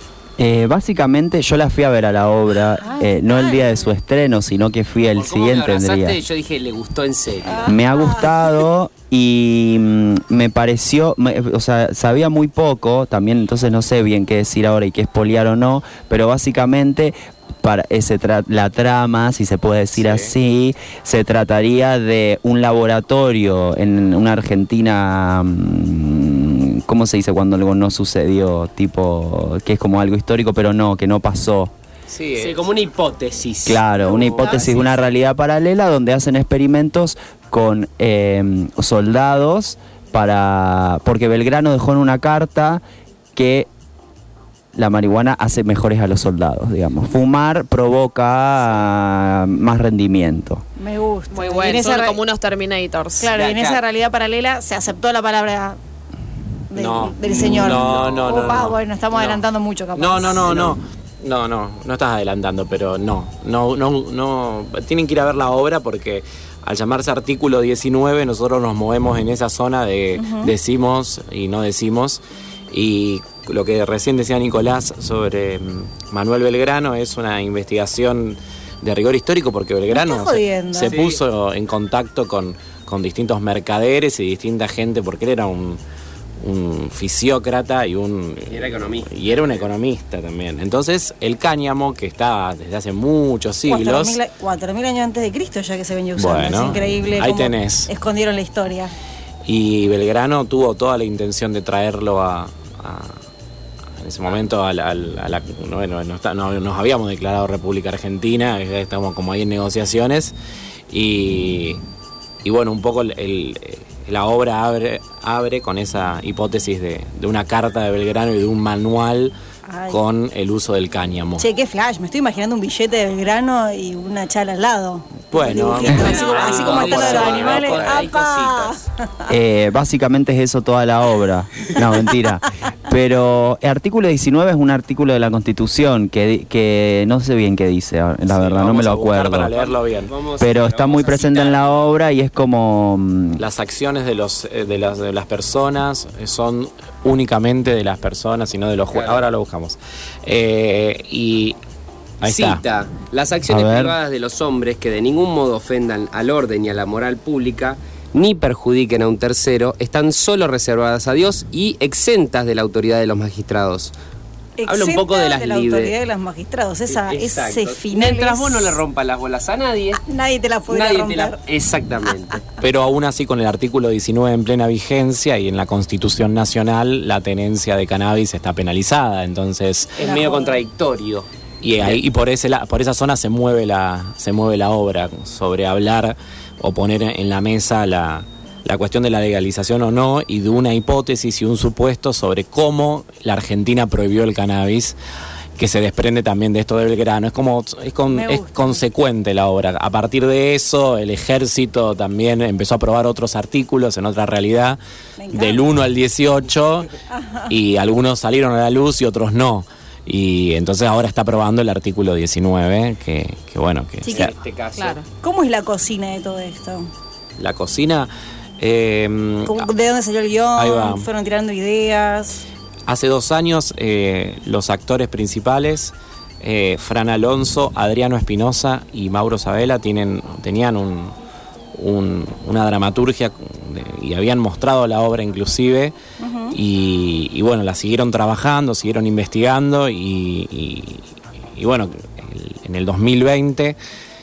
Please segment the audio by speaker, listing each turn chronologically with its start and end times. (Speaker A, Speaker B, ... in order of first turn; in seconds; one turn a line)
Speaker A: 0.4-6.2
Speaker B: 2.8-3.8
Speaker C: 5.1-7.7
Speaker B: 7.4-8.6
Speaker A: 7.7-31.7
Speaker D: 19.9-20.3
Speaker D: 32.1-32.5
Speaker C: 32.3-34.9
Speaker A: 33.6-42.8
Speaker B: 34.0-34.8
Speaker A: 43.3-43.7
Speaker A: 44.7-50.6
Speaker B: 50.8-52.2
Speaker E: 51.3-53.3
Speaker B: 53.2-55.8
Speaker C: 53.3-53.8
Speaker B: 56.7-60.8
Speaker D: 56.7-59.4
Speaker C: 57.3-58.5
Speaker D: 59.9-85.8
Speaker B: 70.2-70.5
Speaker B: 79.9-80.9
Speaker C: 80.8-81.2
Speaker D: 86.4-94.2
Speaker C: 88.5-89.6
Speaker B: 93.7-98.9
Speaker D: 96.2-97.9
Speaker D: 99.5-103.2
Speaker D: 104.0-110.3
Speaker D: 110.9-111.8
Speaker D: 112.4-119.3
Speaker B: 119.7-120.0
Speaker D: 119.9-121.5
Speaker B: 121.4-129.3
Speaker D: 125.3-128.0
Speaker C: 125.8-128.8
Speaker A: 129.3-139.5
Speaker D: 138.2-140.1
Speaker C: 139.5-141.9
Speaker A: 140.4-143.4
Speaker D: 143.4-151.6
Speaker C: 148.9-149.2
Speaker D: 152.2-152.6
Speaker C: 152.2-163.9
Speaker A: 153.5-153.9
Speaker B: 164.6-168.8
Speaker C: 164.7-165.9
Speaker C: 166.9-170.0
Speaker B: 170.0-171.4
Speaker C: 170.7-172.4
Speaker D: 172.6-180.0
Speaker C: 179.9-182.0
Speaker B: 180.0-180.6
Speaker D: 181.6-195.0
Speaker D: 195.6-204.8
Speaker B: 198.1-198.8
Speaker B: 205.2-205.7
Speaker D: 205.3-206.9
Speaker B: 207.1-207.5
Speaker D: 207.5-214.3
Speaker B: 214.0-214.3
Speaker C: 214.1-215.0
Speaker E: 214.8-215.1
Speaker B: 215.2-216.9
Speaker D: 217.4-219.7
Speaker B: 219.4-222.4
Speaker D: 220.5-221.1
Speaker D: 222.9-231.1
Speaker D: 231.7-235.9
Speaker B: 236.2-236.6
Speaker D: 236.5-243.8